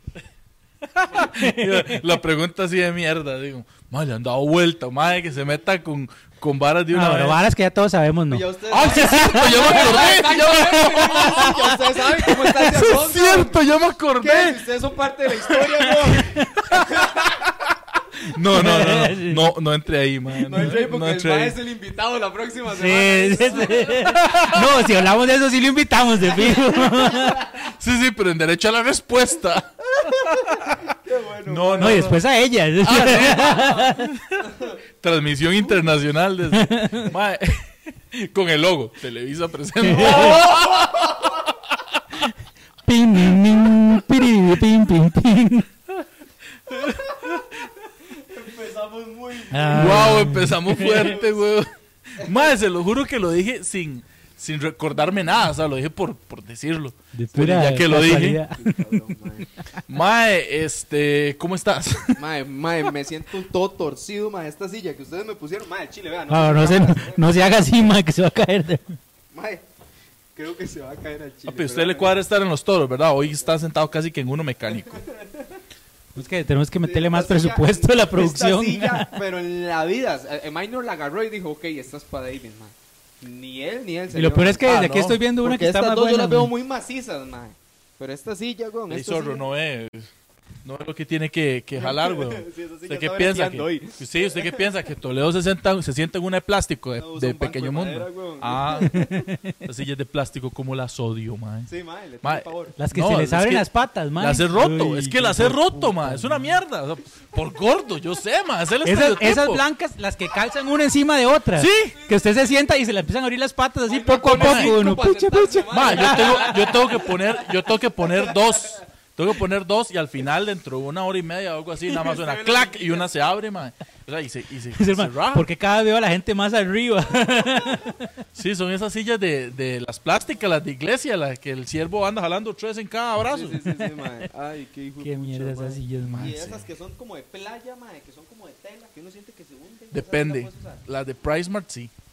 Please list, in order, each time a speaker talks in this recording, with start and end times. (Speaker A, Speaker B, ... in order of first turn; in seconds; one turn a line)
Speaker A: 0.8-7.4
Speaker B: 1.2-2.0
Speaker B: 6.9-10.3
Speaker C: 8.3-13.7
Speaker A: 8.7-14.7
Speaker B: 10.9-11.8
Speaker C: 14.2-17.4
Speaker A: 18.1-21.6
Speaker B: 18.5-19.5
Speaker C: 20.4-24.4
Speaker B: 20.5-20.8
Speaker B: 22.7-27.5
Speaker A: 24.1-24.6
Speaker C: 26.4-27.4
Speaker A: 27.6-30.9
Speaker C: 30.0-32.2
Speaker A: 31.5-32.2
Speaker B: 31.8-34.1
Speaker A: 32.8-42.3
Speaker B: 36.5-37.1
Speaker B: 39.8-40.4
Speaker C: 40.0-41.4
Speaker B: 42.9-45.7
Speaker A: 46.7-47.7
Speaker C: 48.1-51.4
Speaker B: 49.5-51.1
Speaker A: 49.8-58.4
Speaker C: 52.2-52.5
Speaker B: 57.1-59.0
Speaker C: 58.5-59.5
Speaker A: 59.9-62.2
Speaker C: 62.1-67.5
Speaker B: 66.3-68.8
Speaker C: 69.3-69.6
Speaker C: 70.3-72.2
Speaker A: 71.5-75.0
Speaker C: 74.7-75.6
Speaker B: 76.2-79.2
Speaker C: 76.8-84.7
Speaker B: 84.1-86.5
Speaker A: 84.6-85.2
Speaker C: 85.4-89.5
Speaker A: 88.9-90.1
Speaker A: 90.6-99.0
Speaker C: 91.7-94.8
Speaker C: 97.0-99.3
Speaker B: 98.8-99.6
Speaker A: 99.6-101.7
Speaker C: 101.7-102.8
Speaker A: 102.2-109.6
Speaker B: 102.8-106.6
Speaker B: 108.8-116.7
Speaker A: 111.5-112.0
Speaker C: 112.1-112.4
Speaker C: 113.9-118.8
Speaker A: 114.3-114.8
Speaker A: 115.7-125.5
Speaker C: 121.9-123.1
Speaker B: 124.8-128.1
Speaker A: 128.3-133.7
Speaker C: 133.2-140.8
Speaker B: 133.8-134.3
Speaker B: 135.0-136.5
Speaker A: 136.1-136.6
Speaker A: 139.9-141.9